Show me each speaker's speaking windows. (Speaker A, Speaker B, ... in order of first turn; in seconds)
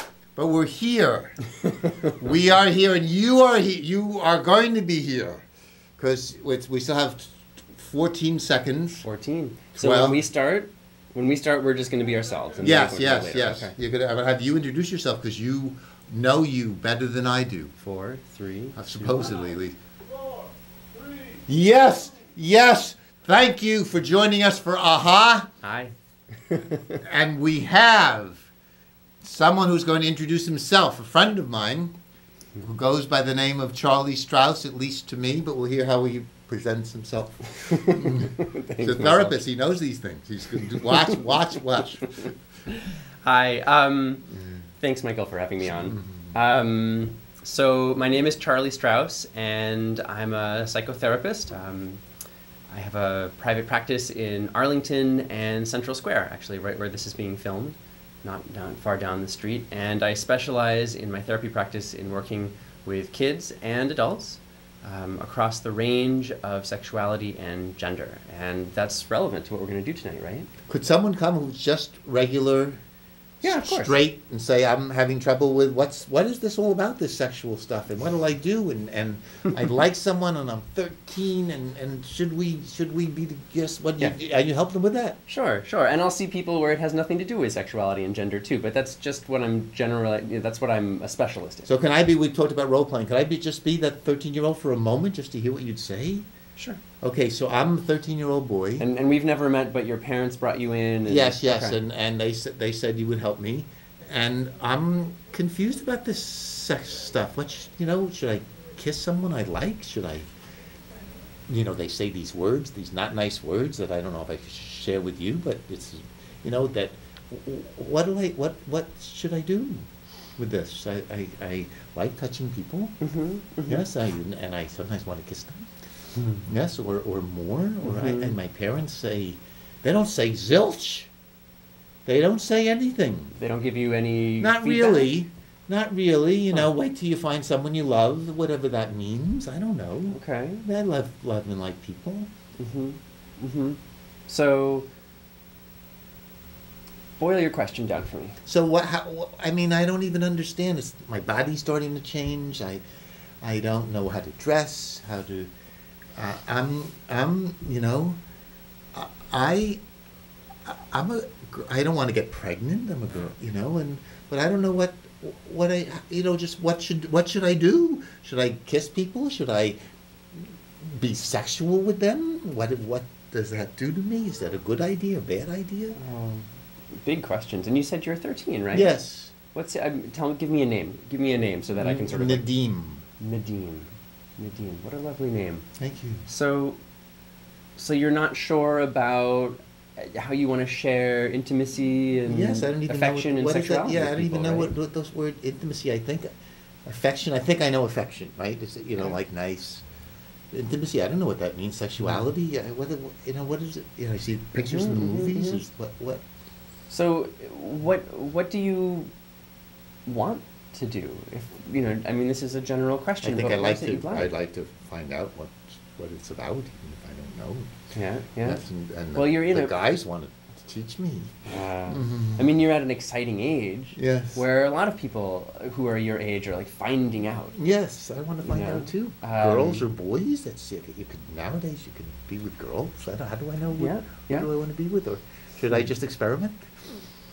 Speaker A: 0.4-1.4, 2.1-5.5, 6.0-9.1, 9.8-10.2, 12.6-17.7, 18.8-19.8, 21.5-25.5, 27.0-28.5, 29.2-31.9, 32.6-42.3, 45.6-46.4, 70.7-72.8, 73.4-85.2, 91.7-96.3, 97.0-98.8, 101.0-110.3, 111.5-119.9, 120.4-123.0, 123.7-125.7, 126.5-131.1, 132.1-133.3, 134.4-142.3, 148.5-152.8, 153.4-155.5, 156.2-158.2, 158.9-159.8, 160.7-169.8, 170.8-176.0, 178.7-179.3, 181.8-183.1, 185.8-186.2, 192.3-196.3, 196.8-199.8, 200.5-206.2, 213.2-217.7, 218.4-222.5, 224.0-224.4, 227.5-236.6
Speaker B: 9.0-13.8, 17.8-19.4, 25.6-25.9, 26.5-26.9, 37.6-39.4, 40.8-41.1, 42.7-44.3, 44.8-52.0, 52.7-70.5, 73.4-74.0, 85.3-91.7, 98.8-101.8, 123.0-123.9, 126.2-126.4, 127.8-128.4, 133.3-135.1, 140.1-140.6, 142.6-144.9, 147.2-148.4, 176.0-178.9, 179.5-182.5, 183.2-185.7, 186.3-186.8, 187.8-194.7, 202.0-202.3, 204.7-205.6, 206.9-209.1, 210.1-214.3, 217.9-218.6, 219.2-219.8, 221.5-227.5, 228.4-229.9, 233.8-234.5